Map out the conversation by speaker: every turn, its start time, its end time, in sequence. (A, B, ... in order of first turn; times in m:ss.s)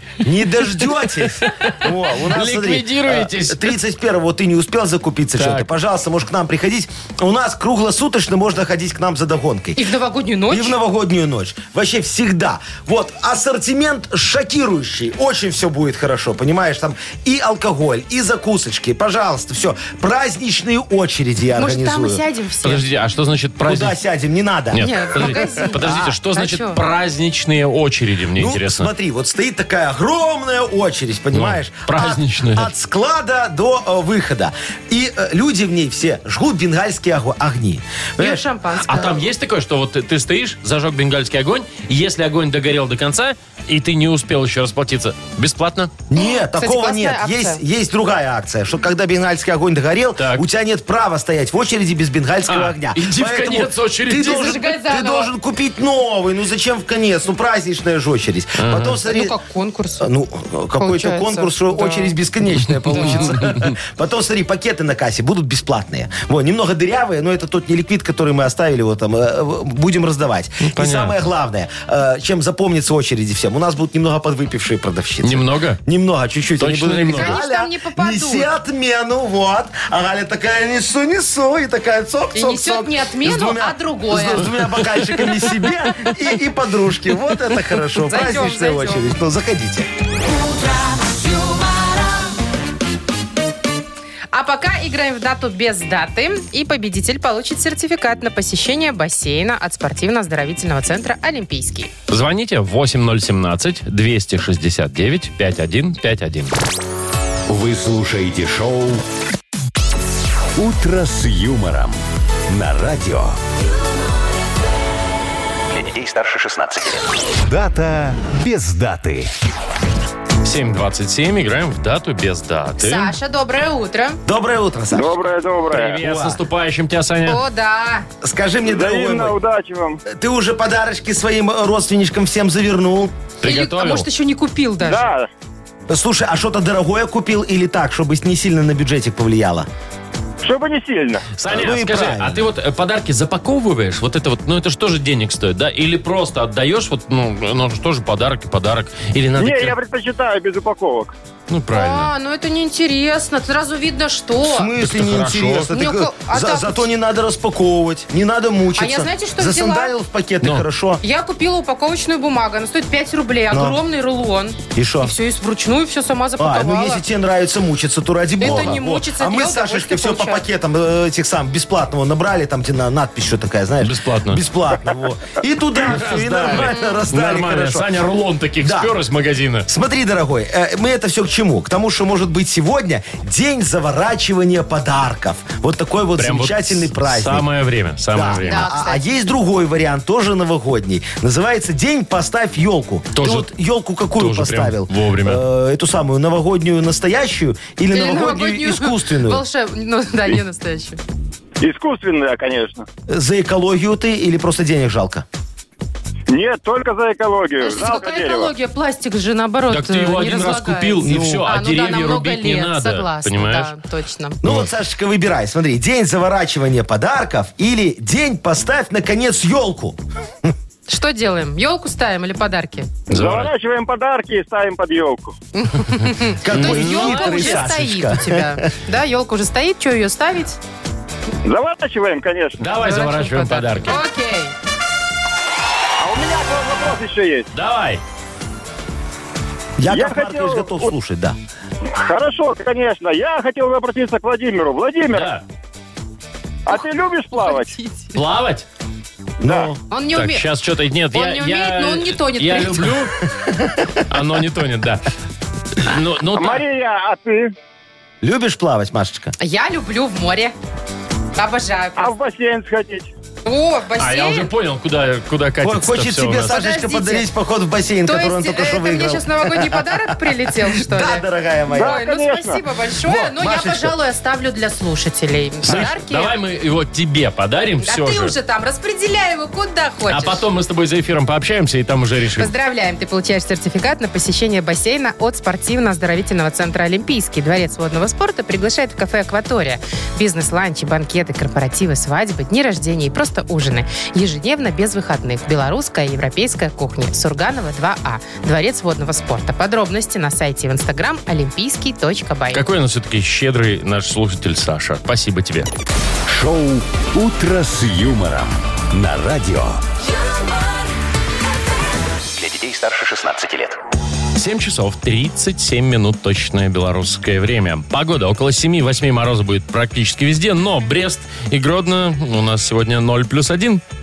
0:00.2-0:09.9 A
0:01.2-0:03.8 B
0:05.4-0:05.7 B
0:09.8-0:10.8 C
0:10.5-0:22.2 A
0:21.6-0:22.8 C
0:22.6-0:24.0 B
0:23.6-0:26.1 A
0:24.7-0:28.9 B
0:24.8-0:26.8 C
0:28.4-0:38.5 A
0:31.3-0:32.7 B
0:38.2-0:39.2 C
0:38.8-0:45.9 B
0:46.1-0:59.4 A
0:46.2-0:47.6 C
0:50.2-0:50.4 B
0:52.5-0:54.6 B
0:54.2-0:55.3 C
0:58.6-0:59.0 B
0:59.1-1:00.1 C
1:00.0-1:29.9 A
1:00.8-1:02.2 C
1:02.8-1:03.7 B
1:02.9-1:03.5 C
1:10.6-1:11.2 B
1:15.2-1:15.8 B
1:16.6-1:17.4 B
1:17.1-1:18.5 C
1:22.3-1:24.5 C
1:28.0-1:29.1 C
1:30.8-1:31.6 C
1:34.3-1:41.9 C
1:42.1-1:46.5 B
1:47.5-1:49.0 D
1:50.6-1:52.0 D
1:52.5-1:53.4 D
1:55.7-1:57.1 E
1:57.4-1:59.3 D
2:00.4-2:03.1 B
2:02.8-2:04.2 C
2:04.3-2:05.2 A
2:04.9-2:06.0 F
2:05.7-2:07.4 B
2:06.0-2:06.4 A
2:07.3-2:08.1 C
2:08.2-2:09.4 A
2:08.6-2:10.0 F
2:10.1-2:13.1 A
2:13.4-2:15.1 C
2:13.4-2:14.1 B
2:14.8-2:15.3 F
2:15.9-2:19.7 A
2:20.4-2:21.3 F
2:21.4-2:29.8 B
2:21.5-2:22.5 A
2:29.4-2:31.1 F
2:31.5-2:32.1 B
2:31.7-2:34.7 C
2:34.4-2:41.0 A
2:34.8-2:35.7 B
2:35.7-2:36.9 C
2:38.8-2:39.9 C
2:41.0-2:47.0 C
2:43.5-2:43.8 A
2:44.8-2:45.1 A
2:46.4-2:58.0 A
2:48.4-2:50.4 C
2:48.4-2:48.8 B
2:53.8-2:54.4 B
2:55.8-2:59.7 B
2:56.7-2:57.0 C
2:58.6-2:58.9 A
2:59.7-3:07.5 A
3:06.2-3:08.6 B
3:08.1-3:19.4 A
3:08.4-3:09.0 C
3:13.2-3:13.5 B
3:14.2-3:15.4 B
3:17.9-3:21.0 C
3:21.6-3:22.9 F
3:23.1-3:25.3 A
3:26.3-3:28.5 F
3:27.6-3:34.4 C
3:29.7-3:33.7 B
3:31.0-3:31.5 A
3:34.4-3:40.5 A
3:40.9-3:42.9 C
3:43.1-3:43.5 B
3:43.1-3:45.3 F
3:45.6-3:50.6 C
3:46.4-3:48.7 A
3:46.5-3:47.7 B
3:51.4-3:52.6 F
3:52.6-3:54.0 B
3:52.8-3:54.5 C
3:56.0-3:57.5 F
3:57.5-3:58.0 B
3:59.8-4:01.4 A
3:59.9-4:00.9 F
4:02.0-4:05.3 F
4:05.1-4:05.4 B
4:06.7-4:07.7 F
4:07.4-4:08.1 C
4:08.2-4:08.6 B
4:09.4-4:09.7 F
4:09.4-4:09.8 A
4:09.9-4:10.4 C
4:10.1-4:13.2 B
4:11.1-4:12.9 C
4:13.3-4:13.9 A
4:14.1-4:15.1 B
4:15.8-4:16.6 B
4:16.4-4:17.5 F
4:18.2-4:19.3 A
4:19.4-4:20.5 C
4:21.4-4:22.1 C
4:22.0-4:23.1 F
4:23.4-4:24.5 C
4:24.0-4:26.6 B
4:25.6-4:32.0 A
4:26.5-4:27.3 C
4:28.1-4:36.4 C
4:31.7-4:32.6 F
4:33.0-4:34.0 A
4:35.7-4:38.4 B
4:37.8-4:40.4 C
4:40.1-4:42.5 B
4:42.4-5:02.6 C
5:02.5-5:05.7 B
5:06.3-5:09.8 D
5:12.3-5:13.8 E
5:14.4-5:23.8 B